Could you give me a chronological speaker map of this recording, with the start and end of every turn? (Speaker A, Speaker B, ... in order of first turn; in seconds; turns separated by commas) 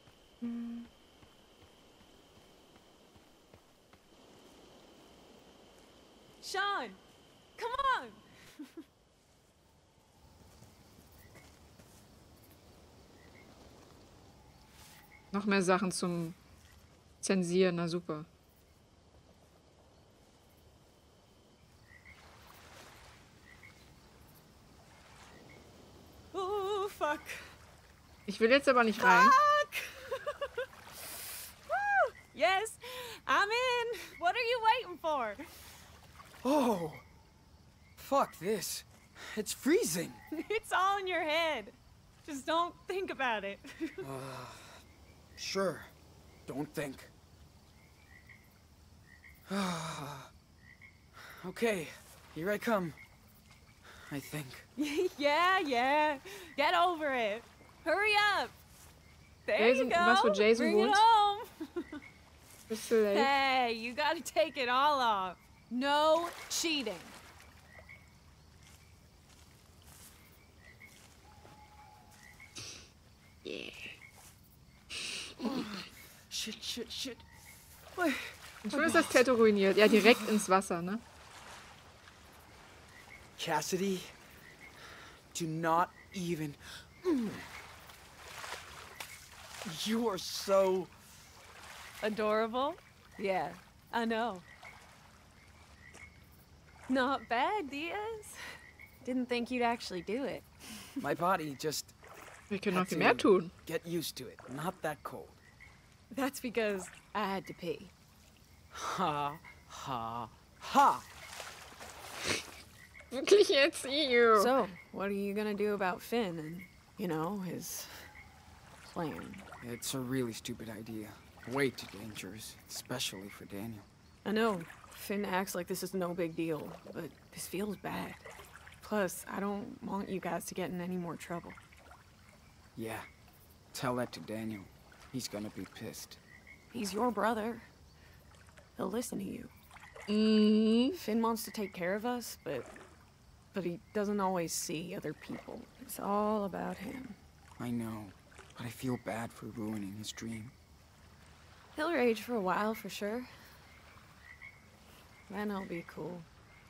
Speaker A: 0.4-0.9, Speaker B: 6.4-7.0, Speaker B: 7.6-8.7, Speaker A: 15.3-16.4, Speaker A: 17.2-18.3, Speaker B: 26.3-27.4, Speaker A: 28.2-29.4, Speaker B: 29.0-30.6, Speaker B: 31.7-35.4, Speaker C: 36.4-37.0, Speaker C: 38.0-40.2, Speaker B: 40.3-44.0, Speaker C: 44.0-44.8, Speaker C: 45.4-45.9, Speaker C: 46.5-47.1, Speaker C: 49.5-50.3, Speaker C: 51.4-53.0, Speaker C: 54.1-54.7, Speaker B: 54.8-58.5, Speaker B: 59.5-62.0, Speaker A: 59.6-61.0, Speaker A: 62.7-63.3, Speaker B: 63.0-67.1, Speaker A: 73.4-73.9, Speaker C: 75.4-77.2, Speaker A: 78.6-81.0, Speaker C: 78.7-79.3, Speaker C: 83.4-84.1, Speaker C: 85.3-87.5, Speaker C: 89.6-90.9, Speaker B: 92.0-94.5, Speaker B: 96.9-98.3, Speaker B: 99.0-100.9, Speaker C: 101.0-101.9, Speaker A: 102.5-103.5, Speaker C: 102.7-105.4, Speaker B: 106.1-107.9, Speaker C: 108.7-111.0, Speaker A: 113.1-114.5, Speaker B: 114.3-117.9, Speaker B: 118.8-119.4, Speaker C: 119.6-123.8, Speaker B: 124.2-128.2, Speaker B: 128.8-131.6, Speaker C: 132.7-133.1, Speaker C: 133.7-136.2, Speaker B: 136.7-137.7, Speaker B: 138.8-139.5, Speaker A: 140.1-141.0, Speaker B: 140.9-142.7, Speaker B: 143.5-147.2, Speaker C: 147.6-150.5, Speaker B: 151.7-153.3, Speaker B: 155.3-156.3